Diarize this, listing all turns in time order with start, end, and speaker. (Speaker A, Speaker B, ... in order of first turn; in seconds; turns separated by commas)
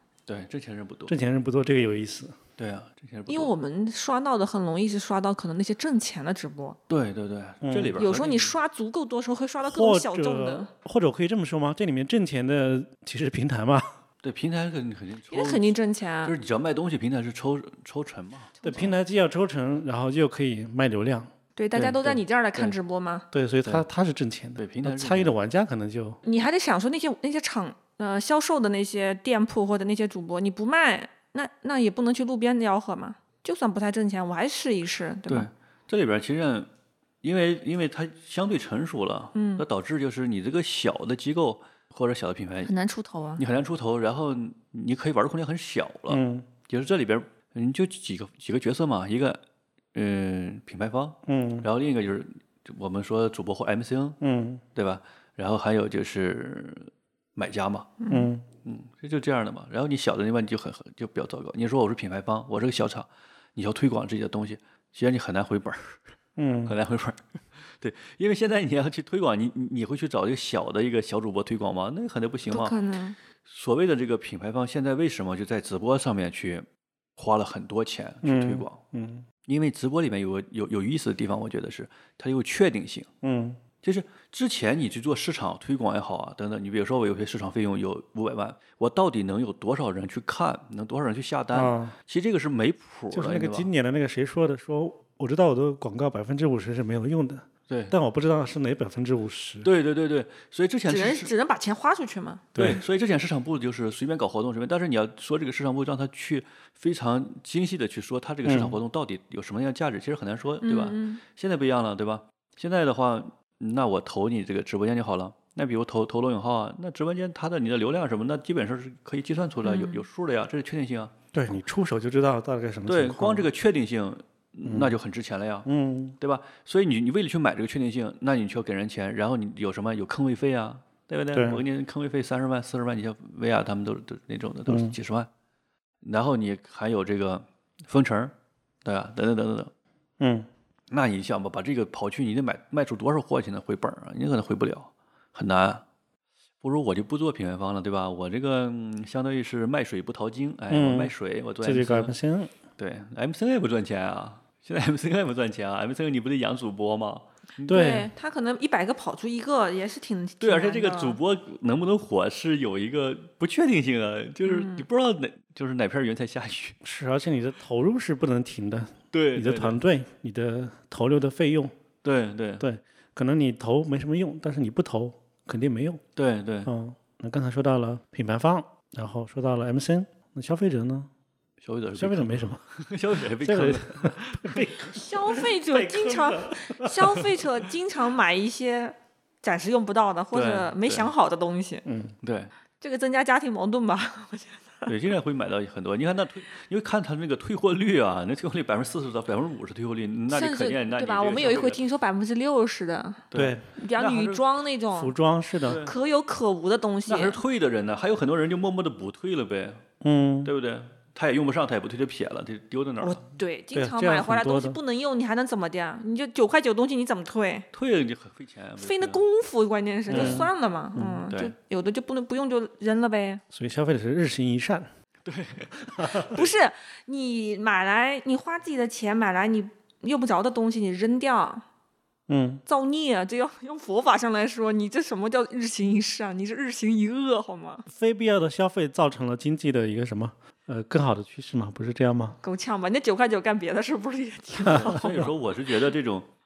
Speaker A: 0.3-1.2, Speaker B: 1.1-2.4, Speaker A: 2.6-3.5, Speaker C: 3.3-6.8, Speaker A: 6.9-8.5, Speaker B: 7.6-8.0, Speaker C: 8.0-10.7, Speaker B: 9.6-14.0, Speaker A: 14.2-18.9, Speaker C: 15.3-16.4, Speaker B: 18.6-21.3, Speaker C: 21.6-23.3, Speaker A: 21.8-22.8, Speaker B: 23.3-26.2, Speaker A: 24.6-25.4, Speaker C: 26.2-35.5, Speaker A: 35.3-36.7, Speaker A: 37.2-42.7, Speaker C: 39.4-39.6, Speaker C: 42.6-43.4, Speaker A: 43.4-49.4, Speaker B: 46.1-46.5, Speaker A: 49.9-54.2, Speaker B: 51.3-51.7, Speaker B: 54.2-54.6, Speaker A: 54.8-58.0, Speaker C: 58.0-58.3, Speaker B: 58.1-58.5, Speaker A: 58.6-66.0, Speaker B: 66.4-66.8, Speaker A: 66.7-72.8, Speaker C: 72.5-73.2, Speaker A: 73.4-76.7, Speaker A: 77.2-78.8, Speaker B: 78.2-79.3, Speaker A: 79.5-83.1, Speaker B: 83.2-83.6, Speaker A: 83.8-93.7, Speaker B: 91.5-92.0, Speaker B: 93.1-99.7, Speaker A: 97.7-97.9, Speaker A: 99.6-101.3, Speaker C: 100.9-102.8, Speaker B: 102.5-102.8, Speaker A: 102.6-121.2, Speaker B: 108.5-108.8, Speaker C: 110.6-111.2, Speaker C: 119.6-120.0, Speaker B: 121.3-123.5, Speaker A: 122.9-125.7, Speaker B: 124.7-124.9, Speaker B: 125.7-126.2, Speaker A: 126.2-135.3, Speaker B: 131.3-131.6, Speaker B: 134.7-135.0, Speaker A: 136.0-139.7, Speaker B: 140.2-140.5, Speaker A: 140.9-145.8, Speaker A: 146.6-152.1, Speaker B: 150.7-152.5, Speaker A: 152.8-158.0, Speaker C: 157.7-161.2, Speaker B: 157.7-158.1, Speaker A: 160.4-166.8, Speaker C: 164.5-164.9, Speaker B: 166.8-171.8, Speaker A: 169.1-169.8, Speaker A: 172.0-172.7, Speaker B: 172.6-176.0, Speaker A: 176.2-176.7, Speaker B: 176.7-181.1, Speaker A: 181.6-185.0, Speaker B: 182.0-182.6, Speaker B: 183.4-187.2, Speaker C: 184.9-191.8, Speaker A: 190.3-191.1, Speaker B: 191.8-192.2, Speaker A: 192.2-192.5, Speaker C: 192.8-194.9, Speaker A: 194.9-201.8, Speaker C: 200.3-205.1, Speaker A: 203.3-204.4, Speaker B: 203.3-203.7, Speaker B: 204.9-205.8, Speaker A: 205.6-205.9, Speaker C: 205.7-207.4, Speaker A: 207.1-209.8, Speaker B: 210.0-210.5, Speaker A: 210.4-213.2, Speaker C: 213.0-217.7, Speaker B: 213.7-214.8, Speaker A: 217.7-219.2, Speaker C: 218.8-223.4, Speaker A: 220.1-220.5, Speaker B: 220.1-221.3, Speaker B: 223.5-224.9, Speaker A: 225.2-226.5, Speaker B: 226.0-226.3, Speaker C: 226.2-231.7, Speaker B: 232.3-232.6, Speaker C: 232.7-237.8, Speaker B: 237.9-242.4, Speaker C: 242.4-245.2, Speaker A: 244.6-246.3